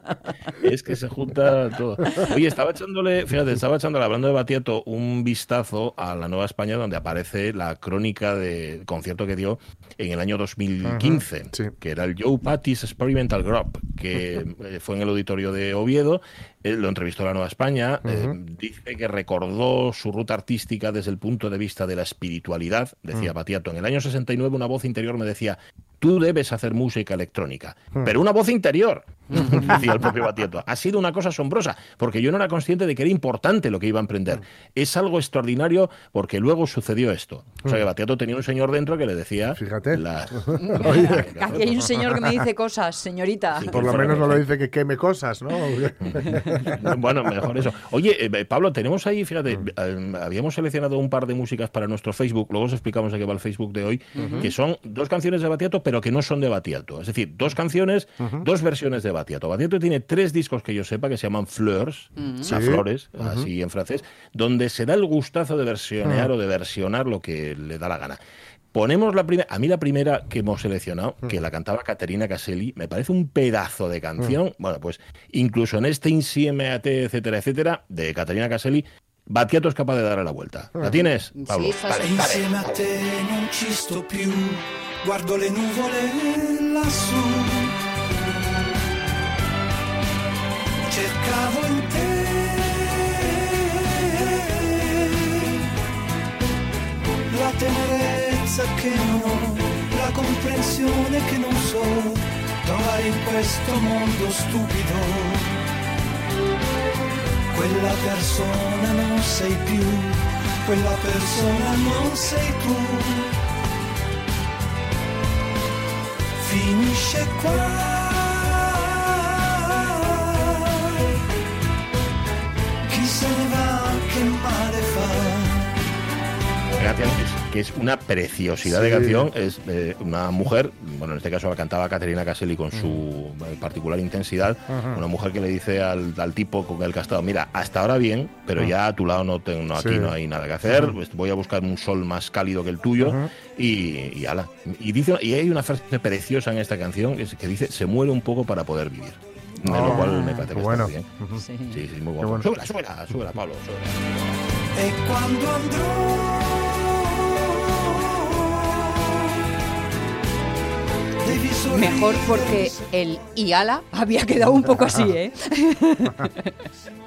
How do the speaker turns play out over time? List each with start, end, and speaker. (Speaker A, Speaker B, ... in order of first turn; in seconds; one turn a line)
Speaker A: 0.5-41.8
Speaker B: 10.8-11.7
Speaker B: 18.0-18.4
Speaker C: 29.3-29.8
Speaker B: 39.5-41.3
Speaker C: 40.5-43.8
Speaker A: 43.5-44.5
Speaker B: 43.7-47.0
Speaker A: 46.0-68.2
Speaker C: 54.1-54.5
Speaker B: 54.2-54.5
Speaker B: 58.2-58.5
Speaker C: 62.2-62.6
Speaker B: 62.4-63.5
Speaker B: 66.0-66.3
Speaker A: 68.7-83.0
Speaker C: 81.3-82.2
Speaker D: 81.9-87.8
Speaker D: 90.8-95.6
Speaker D: 97.3-105.6
Speaker D: 107.5-113.3
Speaker D: 116.4-121.1
Speaker D: 122.9-125.7
Speaker A: 126.8-151.1
Speaker B: 128.7-129.3
Speaker B: 134.7-135.0
Speaker B: 139.8-140.9
Speaker B: 143.0-143.3
Speaker B: 149.6-151.5
Speaker C: 149.8-150.5
Speaker C: 151.4-151.8
Speaker A: 151.7-154.2
Speaker B: 152.2-152.5
Speaker D: 154.7-159.4
Speaker D: 161.2-162.9
Speaker C: 161.7-166.5